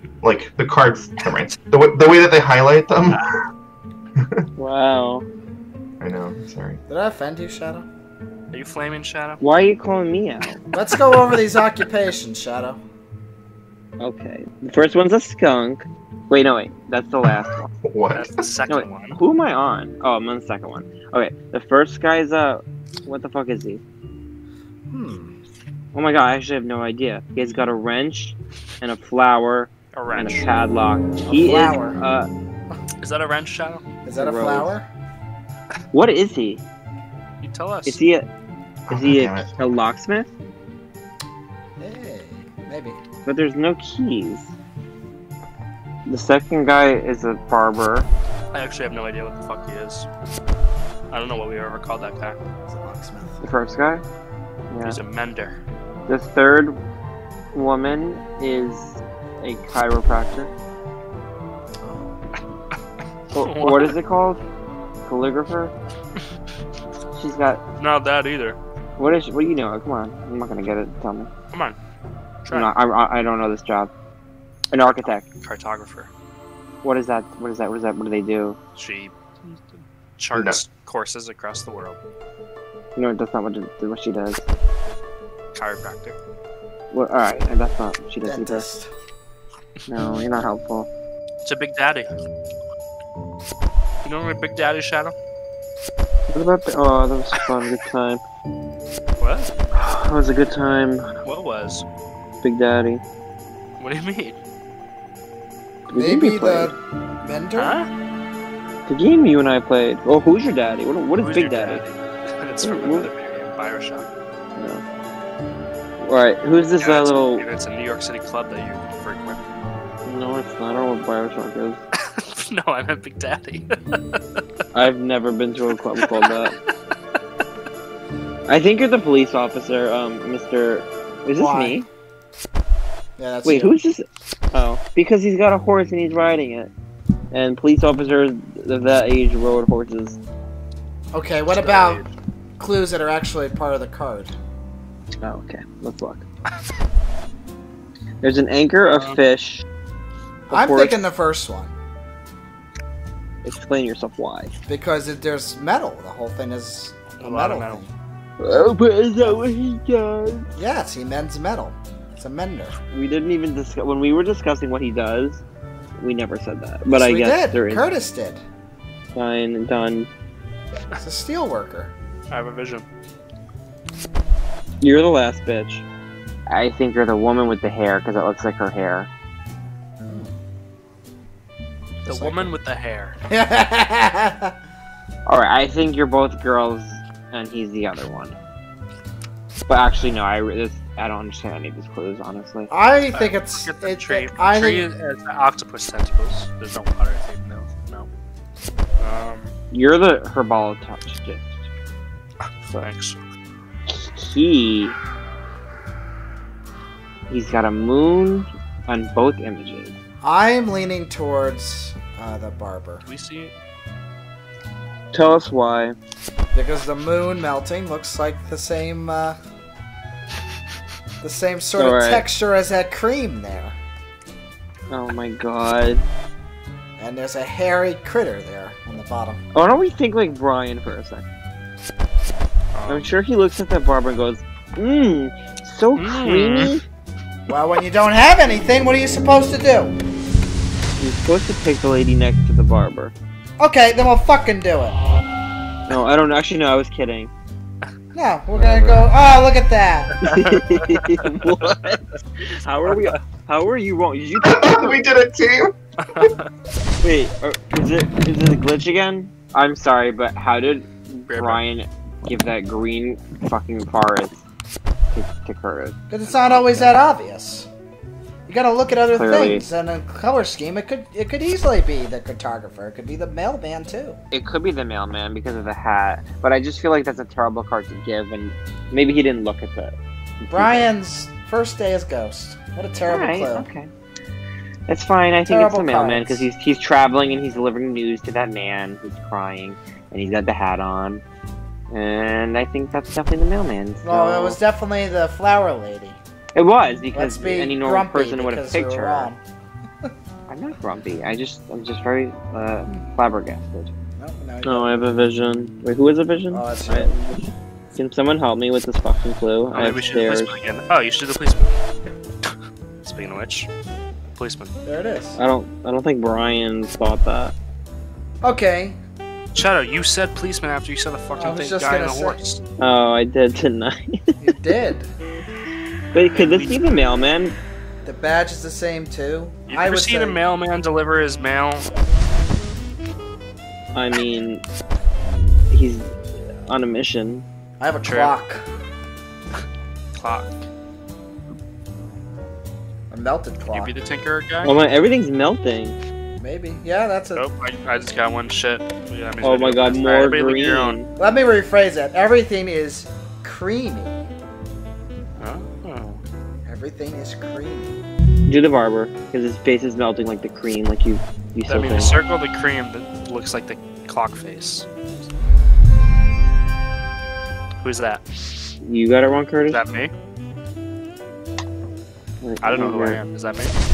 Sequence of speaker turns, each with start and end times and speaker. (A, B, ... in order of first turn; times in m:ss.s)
0:00.2-0:03.3 A
0:04.2-0:04.5 A
0:04.6-0:05.3 B
0:06.0-0:06.8 A
0:06.9-0:07.9 C
0:08.5-0:09.4 D
0:09.4-0:10.6 B
0:10.7-0:12.8 C
0:14.0-0:17.7 B
0:17.2-0:18.4 A
0:18.1-0:19.2 D
0:18.7-0:23.8 B
0:24.9-0:25.3 C
0:25.9-0:32.3 B
0:29.9-0:30.5 D
0:31.2-0:32.0 C
0:33.0-0:33.8 D
0:34.0-0:34.9 C
0:34.2-0:34.8 B
0:35.9-0:36.6 B
0:37.4-0:38.0 D
0:37.9-0:38.3 B
0:38.9-0:39.6 A
0:38.9-0:40.3 B
0:41.8-0:43.0 C
0:43.2-0:44.5 B
0:46.1-0:48.1 B
0:48.5-0:50.1 D
0:51.1-0:52.4 D
0:52.7-0:53.4 C
0:53.4-0:54.0 B
0:54.7-0:55.0 B
0:54.8-0:55.6 D
0:56.1-0:56.8 B
0:57.5-1:00.5 B
1:01.8-1:02.2 C
1:03.3-1:04.4 B
1:03.4-1:04.0 D
1:05.1-1:05.7 B
1:07.1-1:07.6 B
1:07.8-1:08.6 D
1:09.0-1:11.3 B
1:11.5-1:11.8 D
1:12.4-1:12.7 D
1:12.5-1:13.9 B
1:14.7-1:15.3 B
1:14.8-1:16.1 D
1:16.8-1:18.6 B
1:18.8-1:22.0 D
1:20.3-1:20.6 A
1:23.0-1:24.5 B
1:25.6-1:26.2 D
1:26.9-1:28.7 B
1:28.2-1:28.9 C
1:29.9-1:30.9 B
1:31.4-1:32.2 D
1:34.0-1:35.2 D
1:36.3-1:38.2 B
1:39.2-1:39.5 D
1:39.7-1:41.1 B
1:41.2-1:41.9 D
1:42.4-1:43.0 B
1:43.8-1:44.4 D
1:45.9-1:46.8 B
1:45.9-1:47.8 C
1:47.6-1:47.9 D
1:48.9-1:51.8 B
1:51.2-1:54.1 D
1:52.6-1:53.1 B
1:54.6-1:54.8 B
1:56.0-1:57.4 B
1:56.8-1:59.4 D
2:00.0-2:01.8 B
2:01.9-2:04.2 D
2:04.7-2:06.6 B
2:06.0-2:06.7 D
2:08.5-2:11.9 B
2:11.4-2:11.8 C
2:13.2-2:13.8 C
2:13.4-2:16.7 B
2:17.3-2:20.2 B
2:21.1-2:22.0 C
2:21.5-2:22.1 D
2:22.6-2:24.4 C
2:25.2-2:26.2 B
2:28.2-2:29.7 B
2:28.9-2:29.2 D
2:30.5-2:31.7 C
2:30.5-2:31.1 B
2:33.4-2:34.5 B
2:34.7-2:37.9 C
2:37.2-2:37.8 D
2:38.4-2:40.5 B
2:40.6-2:42.8 C
2:42.9-2:45.4 B
2:46.0-2:47.9 B
2:46.9-2:48.4 C
2:49.2-2:50.1 B
2:51.0-2:51.9 C
2:52.3-2:52.8 D
2:54.8-2:55.8 B
2:56.5-2:59.1 B
3:00.0-3:00.3 C
3:02.0-3:02.5 C
3:02.0-3:03.2 D
3:03.3-3:04.5 C
3:05.3-3:08.4 B
3:09.7-3:12.7 B
3:12.7-3:14.9 C
3:13.1-3:18.1 D
3:19.0-3:19.5 D
3:19.7-3:21.6 B
3:22.7-3:23.2 D
3:23.9-3:25.0 B
3:27.3-3:30.0 B
3:30.2-3:33.1 C
3:33.1-3:33.5 D
3:35.1-3:36.0 B
3:36.5-3:39.4 C
3:41.2-3:43.8 C
3:41.8-3:42.3 B
3:44.9-3:46.1 B
3:47.0-3:49.4 C
3:49.5-3:51.3 B
3:52.7-3:53.1 D
3:52.9-3:56.8 B
3:56.0-3:56.8 D
3:57.5-4:00.0 C
4:01.0-4:03.1 B
4:03.6-4:05.0 C
4:05.9-4:07.3 B
4:08.1-4:10.2 C
4:08.5-4:09.1 B
4:10.2-4:15.1 B
4:10.3-4:11.6 D
4:14.4-4:16.3 A
4:16.0-4:16.4 D
4:17.0-4:24.4 B
4:21.3-4:21.6 D
4:25.1-4:26.9 B
4:26.1-4:27.7 C
4:28.5-4:34.2 C
4:29.1-4:29.7 B
4:34.3-4:40.9 B
4:40.5-4:43.7 C
4:43.0-4:43.9 B
4:44.9-4:51.2 B
4:45.5-4:46.5 C
4:51.9-4:54.6 B
4:54.0-4:56.2 C
4:56.5-4:59.3 B
4:57.1-4:59.4 C
5:00.5-5:03.9 B
5:04.2-5:05.1 C
5:04.6-5:10.5 B
5:06.5-5:07.1 C
5:09.7-5:11.8 D
5:12.4-5:13.7 D
5:14.4-5:14.7 D
5:14.8-5:15.4 C
5:15.4-5:17.5 B
5:18.4-5:19.0 C
5:19.5-5:22.6 D
5:21.4-5:22.4 C
5:22.8-5:24.3 B
5:24.4-5:25.1 C
5:26.1-5:27.6 B
5:26.3-5:26.8 D
5:28.0-5:30.4 C
5:29.7-5:31.9 D
5:33.9-5:34.6 B
5:35.7-5:36.2 B
5:36.7-5:37.4 B
5:37.8-5:38.7 C
5:38.0-5:38.4 D
5:40.2-5:40.6 D
5:43.1-5:44.0 C
5:43.7-5:44.8 D
5:44.6-5:46.0 B
5:46.4-5:47.4 C
5:47.3-5:51.0 D
5:49.4-5:51.1 B
5:51.2-5:54.2 C
5:55.4-5:56.2 D
5:56.7-5:58.0 C
5:58.5-6:02.1 B
6:01.7-6:05.3 D
6:07.8-6:08.3 D
6:08.8-6:09.8 B
6:09.7-6:10.1 D
6:12.4-6:13.2 B
6:12.6-6:13.8 D